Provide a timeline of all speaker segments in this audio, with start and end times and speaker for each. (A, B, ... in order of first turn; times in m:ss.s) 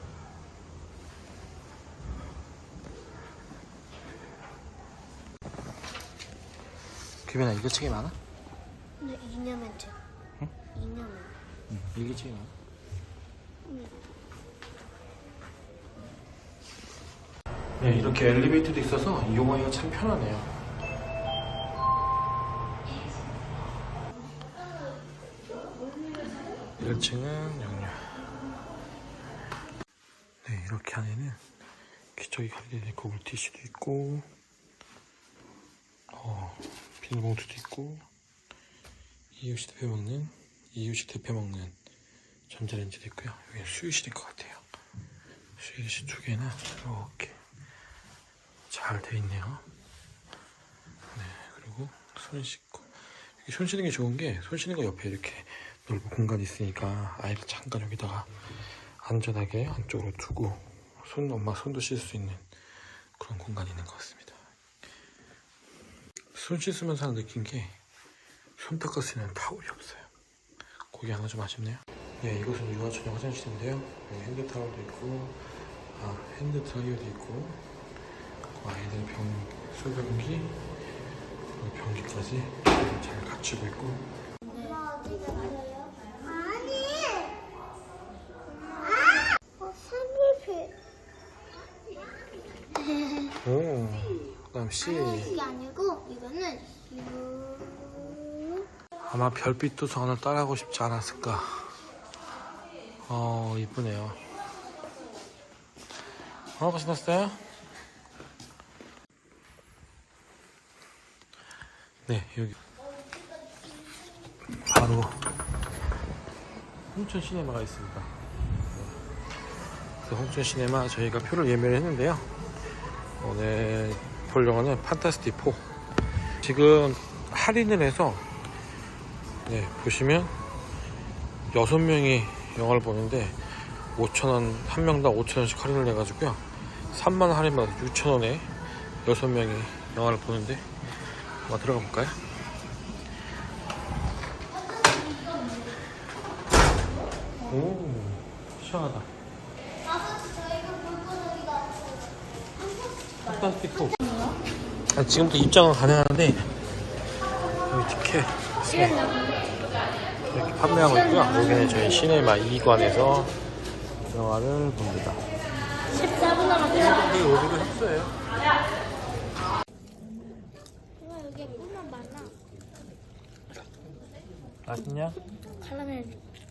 0:07.2-0:08.2 A
0:09.0-0:10.0 B
0:10.8-0:11.4 B
0:11.7-0:12.5 A
0:17.8-0:20.6 A
0:26.8-0:28.2 A
0:30.4-0:31.4 A
0:32.2-0:34.3 A
0:36.1-0:38.0 A
0:39.4-0:41.8 A
0:42.5-0:44.6 A
0:45.6-0:47.4 A
0:48.7-0:49.7 A
0:51.1-0:58.3 A
0:59.0-1:02.5 A
1:03.2-1:04.4 A
1:06.3-1:07.8 A
1:08.6-1:10.1 A
1:10.9-1:17.6 A
1:18.5-1:20.7 A
1:21.6-1:24.1 A
1:24.5-1:27.4 B
1:28.6-1:30.7 B
1:33.0-1:33.3 B
1:33.4-1:35.4 A
1:34.8-1:38.3 B
1:39.1-1:41.8 A
1:43.0-1:44.2 A
1:46.6-1:47.4 A
1:52.1-1:52.6 A
1:54.6-1:55.3 A
1:56.9-1:58.2 A
2:00.0-2:02.4 A
2:03.2-2:05.7 A
2:06.4-2:08.3 A
2:09.5-2:10.4 A
2:11.5-2:22.3 A
2:27.4-2:29.1 A
2:29.9-2:31.9 B
2:33.2-2:34.1 A
2:34.9-2:36.5 A
2:37.7-2:39.1 A
2:40.3-2:43.4 A
2:44.0-2:45.2 A
2:46.0-2:46.8 C
2:46.6-2:48.2 A
2:51.2-2:52.3 C
2:54.6-2:55.2 A
2:55.6-2:56.2 C